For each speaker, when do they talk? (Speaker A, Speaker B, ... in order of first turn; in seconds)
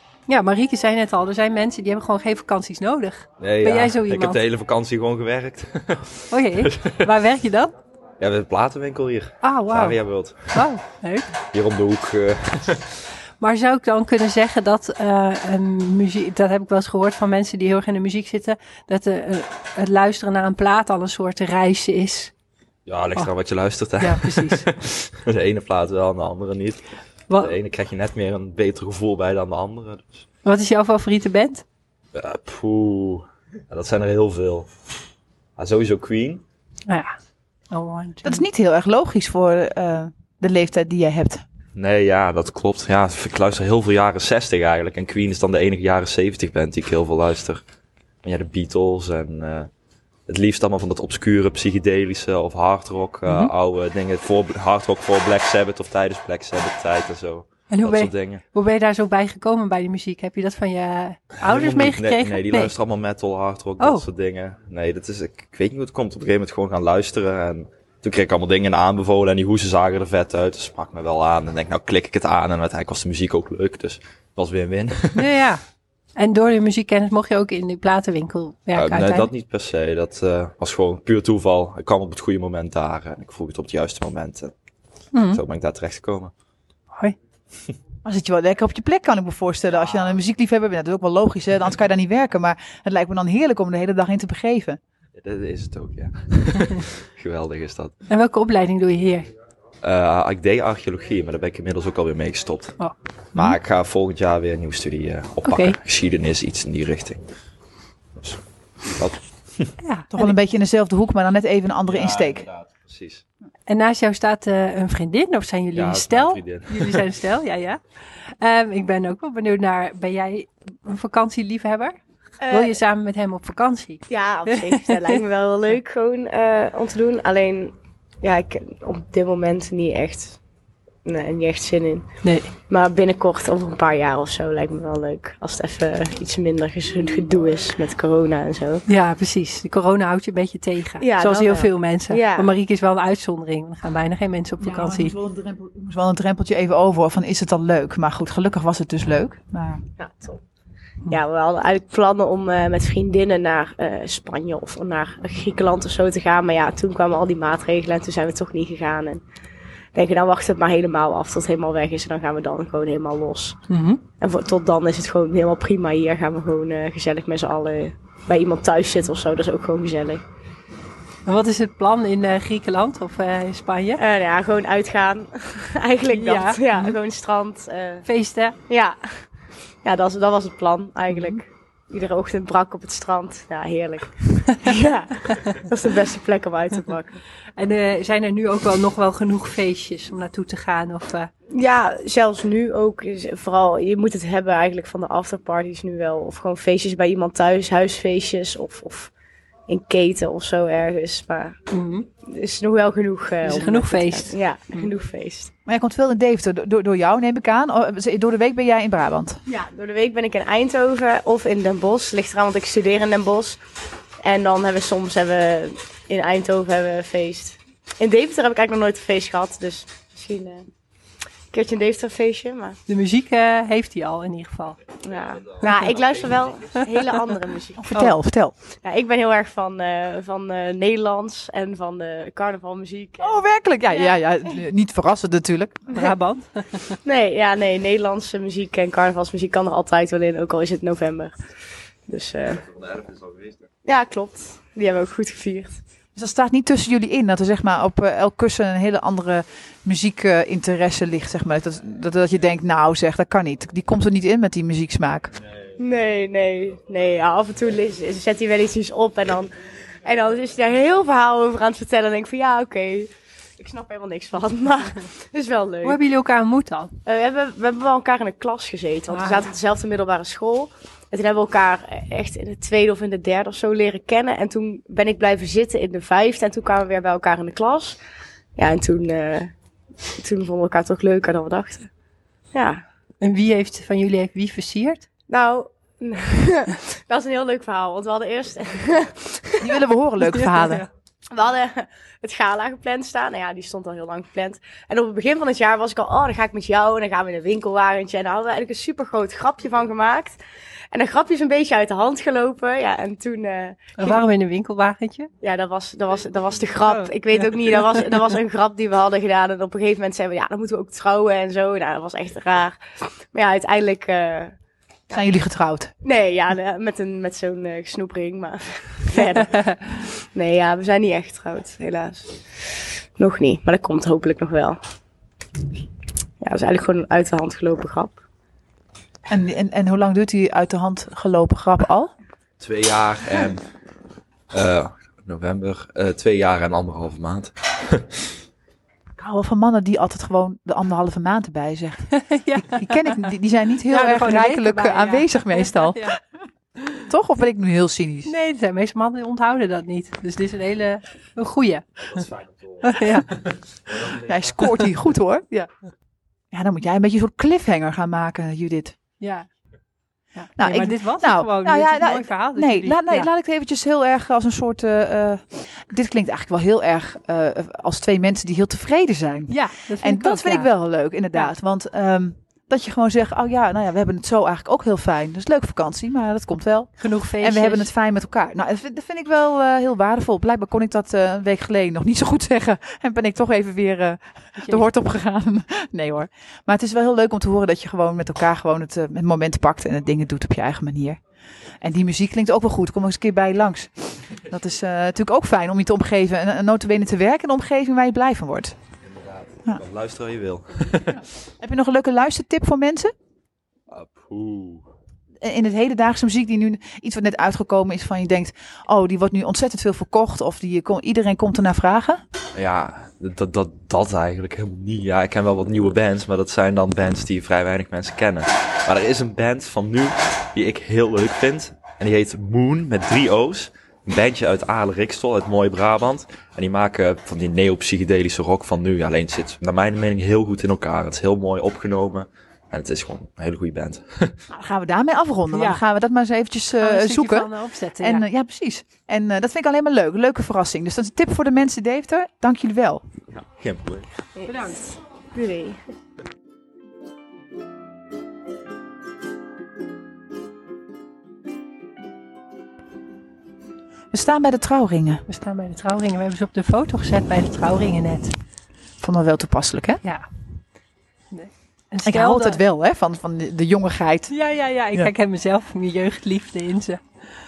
Speaker A: 0.3-4.4, 6.3-7.7, 9.4-10.0, 10.5-11.3, 13.4-22.3, 24.0-24.7, 27.3-27.5, 30.4-31.6, 37.7-38.4, 57.7-62.7, 63.8-64.1, 75.1-75.6, 76.2-79.3, 85.1-85.4, 86.9-87.2, 98.1-99.3, 102.8-103.5, 105.4-105.8, 109.8-110.3, 113.7-117.8, 118.4-122.0, 122.5-125.1, 132.2-132.5, 138.9-145.1, 163.7-164.0, 171.2-174.0, 176.1-177.0, 178.1-178.6, 187.6-191.3, 201.7-202.1, 203.4-204.8, 222.9-224.8, 235.9-237.0, 265.8-266.9, 269.1-269.5, 283.2-285.1, 290.2-290.9, 304.0-305.3, 306.9-307.1, 342.1-343.2, 343.9-346.2, 348.2-352.3, 352.8-353.3, 359.2-359.5, 360.3-363.3, 369.5-370.7, 377.0-377.9, 384.6-384.9, 435.5-435.8, 436.8-438.2, 444.4-444.9, 455.3-458.3, 461.3-462.6, 464.3-467.0
Speaker B: 3.4-7.1, 8.2-10.6, 11.5-12.9, 22.9-26.8, 27.3-30.2, 32.1-34.7, 35.6-36.4, 41.7-47.6, 48.2-49.7, 50.3-58.4, 61.4-75.3, 78.7-84.5, 85.3-86.3, 95.2-97.9, 99.8-102.8, 103.3-107.2, 108.2-109.7, 111.9-113.2, 115.7-117.0, 242.7-243.5, 332.6-333.6, 334.5-338.2, 352.2-352.9, 399.1-401.2, 403.9-404.9, 412.5-434.3, 443.3-444.1
Speaker C: 38.2-41.4, 88.0-94.8, 110.1-112.5, 144.6-149.8, 205.7-209.4, 227.8-228.5, 233.2-235.8, 246.1-255.3, 289.6-290.8, 315.1-315.9, 329.3-332.1, 339.2-346.1, 347.1-348.3, 354.1-355.7, 356.5-358.9, 360.6-391.2, 391.8-398.7, 401.1-403.1, 405.4-412.2, 434.5-443.0, 454.1-455.2, 459.0-460.0, 462.0-464.3
Speaker D: 122.4-122.8, 124.1-130.4, 131.1-132.1, 132.7-138.8, 141.0-142.5, 150.0-150.4, 151.1-159.2, 159.9-163.6, 164.2-170.2, 174.0-178.1, 178.7-179.0, 179.8-187.2, 191.5-199.1, 199.7-201.6, 202.3-205.5, 209.5-213.6, 214.2-220.7, 221.5-222.8, 225.0-228.1, 228.8-233.4, 237.0-241.3, 242.1-242.6, 243.8-245.8, 255.8-259.5, 260.0-266.0, 267.1-278.0, 278.6-279.5, 280.2-281.9, 282.5-282.8, 285.3-289.8, 291.3-300.4, 300.9-304.2, 305.4-312.8, 313.3-314.6, 316.0-324.8, 326.4-328.2, 444.4-445.8